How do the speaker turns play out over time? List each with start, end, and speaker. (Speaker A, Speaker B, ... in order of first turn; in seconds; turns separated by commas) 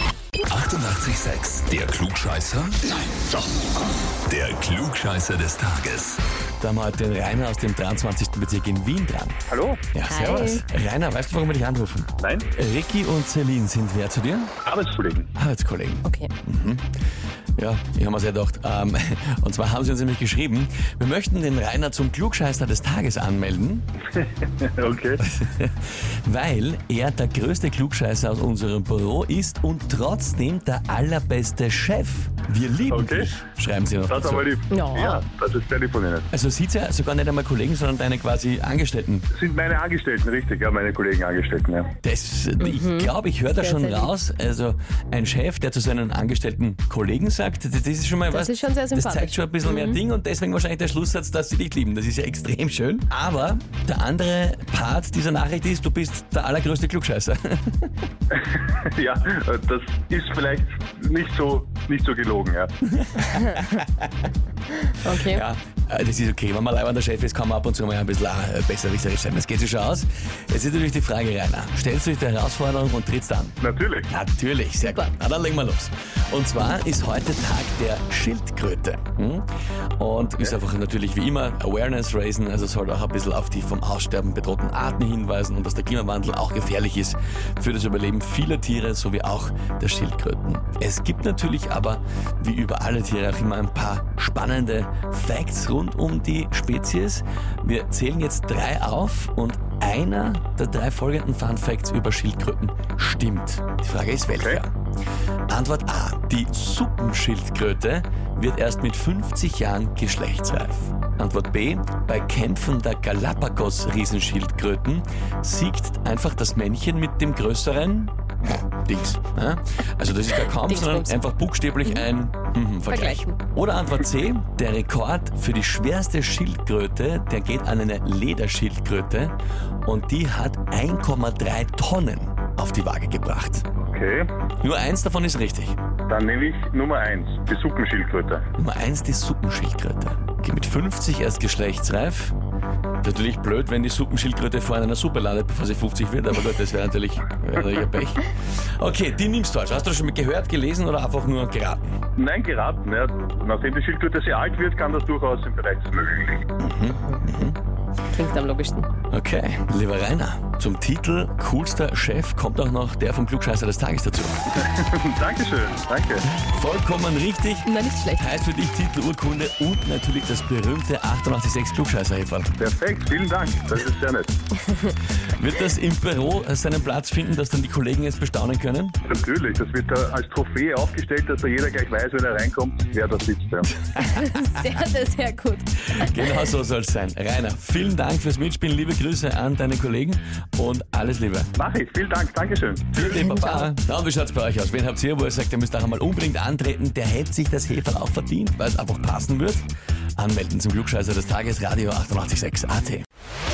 Speaker A: 0.4-3.3, Speaker A: 4.3-6.2, Speaker B: 6.6-9.4, Speaker C: 9.5-9.8, Speaker B: 9.9-14.6, Speaker D: 10.1-10.6, Speaker C: 12.2-12.5, Speaker C: 14.6-15.3, Speaker B: 15.3-16.9, Speaker D: 16.1-16.3, Speaker B: 17.6-23.9, Speaker C: 24.2-25.2, Speaker B: 25.2-34.5, Speaker C: 32.9-33.4, Speaker C: 34.1-36.3, Speaker D: 34.7-35.2, Speaker B: 36.3-39.3, Speaker C: 39.3-41.9, Speaker B: 42.0-57.9, Speaker D: 42.6-44.1, Speaker D: 48.3-50.0, Speaker C: 58.4-62.7, Speaker B: 62.9-64.1, Speaker D: 64.9-65.4, Speaker B: 65.1-73.6, Speaker C: 73.6-74.1, Speaker B: 74.1-79.5, Speaker D: 74.8-75.1, Speaker B: 80.0-104.7, Speaker C: 80.3-80.6, Speaker C: 104.3-104.6, Speaker B: 105.5-133.7, Speaker D: 120.7-121.2, Speaker D: 122.9-123.4, Speaker C: 133.8-134.3, Speaker B: 134.6-135.8, Speaker C: 136.1-138.4, Speaker B: 138.6-142.4, Speaker B: 143.0-151.9, Speaker C: 152.2-156.4, Speaker B: 156.6-157.6, Speaker D: 158.1-158.9, Speaker B: 159.1-164.5, Speaker C: 164.6-166.3, Speaker B: 166.2-172.6, Speaker D: 167.7-168.3, Speaker C: 172.6-174.3, Speaker B: 175.3-179.0, Speaker C: 179.0-183.7, Speaker D: 184.0-186.1, Speaker B: 185.9-191.5, Speaker C: 191.6-193.0, Speaker B: 192.9-199.7, Speaker D: 193.1-193.7, Speaker B: 200.2-203.1